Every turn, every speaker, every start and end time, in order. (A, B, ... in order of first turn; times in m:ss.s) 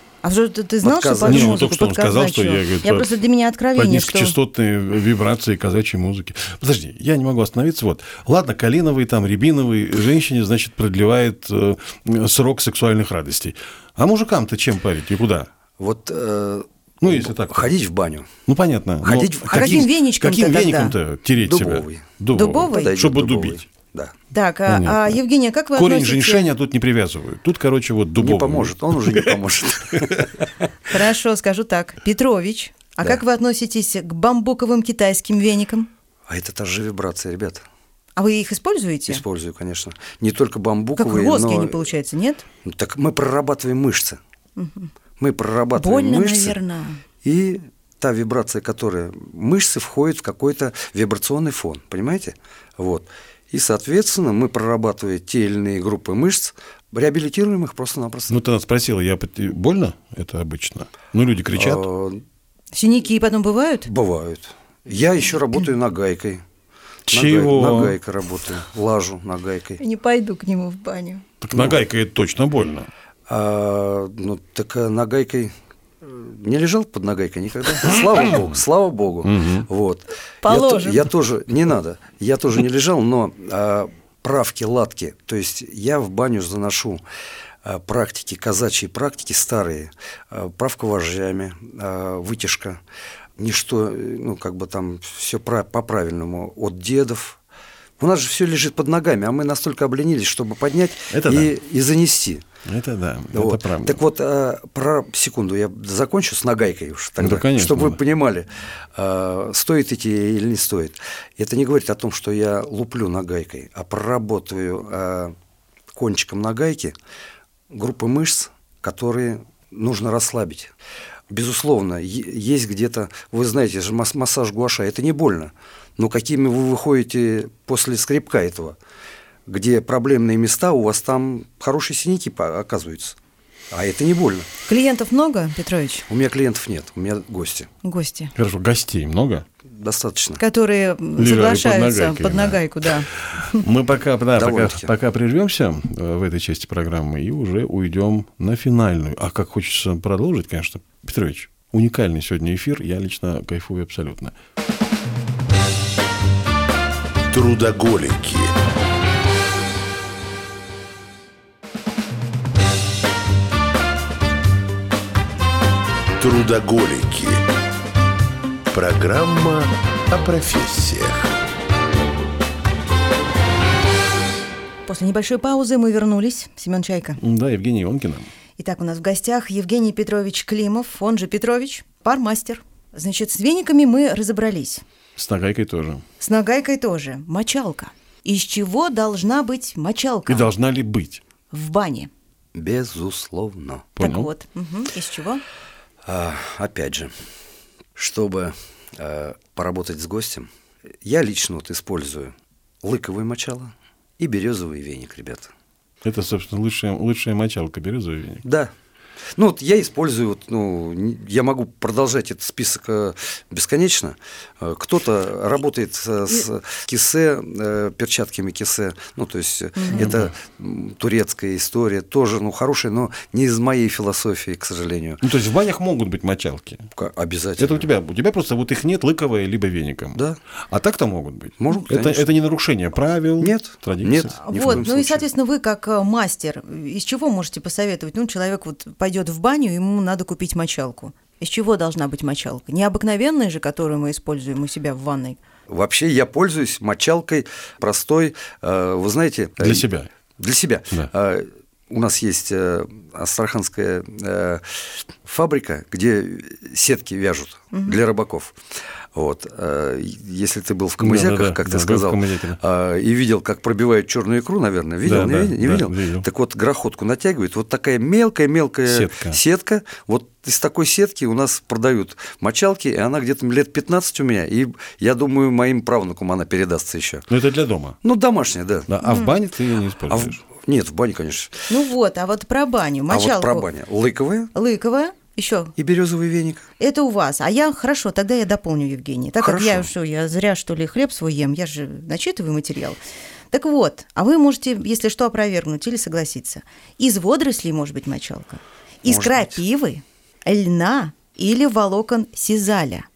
0:00.2-0:04.3 A
0:00.8-0:01.6 B
0:01.2-0:03.2 C
0:03.7-0:15.5 C
0:15.8-0:18.3 B
0:17.0-0:17.7 C
0:18.4-0:23.6 C
0:19.0-0:19.9 B
0:19.5-0:20.9 A
0:21.4-0:24.1 B
0:22.3-0:22.9 A
0:24.3-0:26.5 A
0:24.7-0:25.2 C
0:25.7-0:29.4 C
0:28.2-0:30.3 B
0:29.9-0:30.3 C
0:30.9-0:35.9 A
0:36.3-0:37.6 B
0:38.2-0:39.2 A
0:39.1-0:41.8 B
0:41.0-0:42.4 A
0:42.6-0:44.2 B
0:44.6-0:44.9 A
0:45.2-0:46.6 B
0:45.7-0:47.0 A
0:47.2-0:58.4 B
0:58.3-1:01.8 C
1:01.5-1:02.2 B
1:02.7-1:03.9 A
1:03.9-1:06.4 B
1:07.1-1:08.0 C
1:07.1-1:09.8 B
1:09.8-1:11.2 A
1:11.4-1:12.9 C
1:11.5-1:11.8 B
1:13.3-1:27.0 B
1:18.2-1:18.5 C
1:19.2-1:19.6 C
1:20.4-1:21.1 A
1:27.6-1:32.8 B
1:33.4-1:37.4 B
1:38.0-1:42.4 B
1:41.1-1:41.5 C
1:42.6-1:44.0 C
1:43.3-1:55.3 B
1:47.2-1:48.0 C
1:55.9-1:56.9 B
1:57.7-2:00.7 B
2:01.3-2:08.8 B
2:09.4-2:13.2 B
2:13.7-2:14.5 B
2:14.7-2:16.0 A
2:16.1-2:17.7 B
2:17.8-2:18.3 A
2:18.4-2:19.4 C
2:19.7-2:20.4 B
2:20.4-2:23.6 A
2:21.2-2:34.3 C
2:24.3-2:24.9 B
2:37.3-2:38.6 D
2:46.2-2:47.4 D
2:48.7-2:51.3 D
2:54.9-2:57.2 A
2:57.2-2:58.3 C
2:58.6-3:04.8 A
3:05.2-3:06.0 C
3:06.2-3:10.5 A
3:10.3-3:11.2 C
3:11.5-3:12.1 A
3:12.5-3:13.9 B
3:14.0-3:14.3 C
3:14.0-3:15.4 A
3:16.0-3:17.1 B
3:18.0-3:20.5 B
3:21.0-3:25.5 B
3:26.0-3:28.4 C
3:28.4-3:28.7 B
3:29.3-3:45.2 B
3:39.8-3:40.1 A
3:39.9-3:40.3 C
3:45.2-3:46.9 C
3:46.9-3:47.9 B
3:47.6-3:54.8 C
3:51.6-3:52.3 B
3:53.4-3:55.3 B
3:54.4-4:05.4 A
4:05.7-4:09.9 B
4:09.6-4:10.1 C
4:10.4-4:18.6 B
4:17.7-4:18.0 A
4:19.1-4:37.2 B
4:21.0-4:22.6 C
4:25.0-4:26.2 C
4:28.8-4:29.4 C
4:37.3-4:38.0 C
4:38.0-4:38.9 B
4:38.9-4:40.4 C
4:39.0-4:39.3 A
4:40.1-4:41.6 B
4:41.7-4:43.6 A
4:43.1-4:44.5 B
4:44.5-4:45.7 A
4:45.8-4:46.7 B
4:46.8-4:53.0 A
4:49.4-4:49.9 B
4:53.5-5:03.1 A
4:59.0-4:59.6 B